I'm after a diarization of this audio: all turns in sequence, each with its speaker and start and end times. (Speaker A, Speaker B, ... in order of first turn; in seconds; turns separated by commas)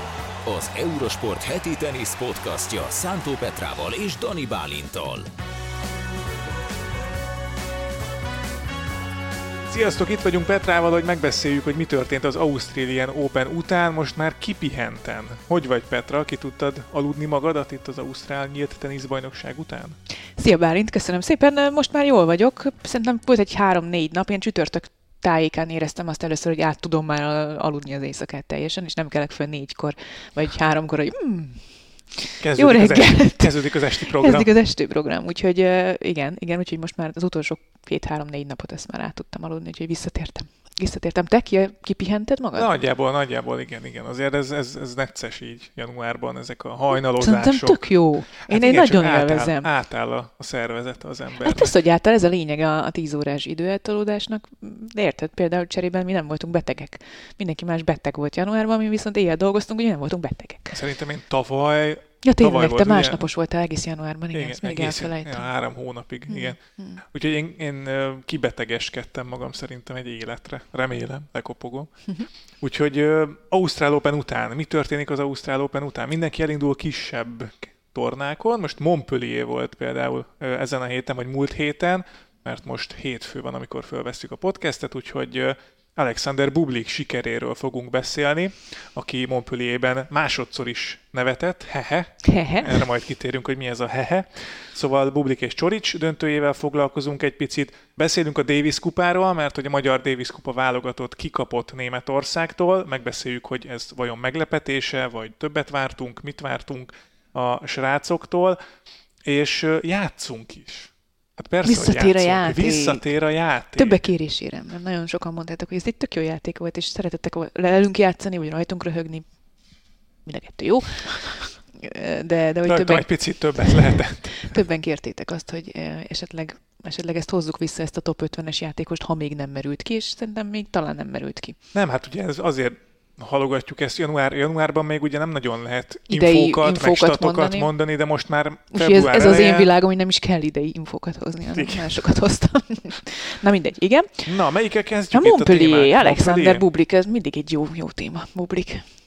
Speaker A: 0.4-5.3, Speaker B: 9.7-19.9, Speaker C: 20.4-42.7, Speaker B: 32.4-34.5, Speaker B: 42.5-47.9, Speaker C: 47.2-49.7, Speaker B: 48.4-51.7, Speaker C: 51.4-60.8, Speaker B: 60.7-63.2, Speaker C: 62.2-65.5, Speaker B: 64.3-71.9, Speaker C: 66.3-67.0, Speaker B: 72.6-108.6, Speaker C: 92.2-92.8, Speaker B: 109.2-114.0, Speaker C: 111.6-113.0, Speaker C: 113.7-119.3, Speaker C: 120.2-131.6, Speaker B: 122.6-124.6, Speaker B: 131.7-139.7, Speaker C: 136.1-137.7, Speaker C: 138.7-144.3, Speaker B: 141.5-142.1, Speaker B: 144.2-146.6, Speaker C: 145.1-148.8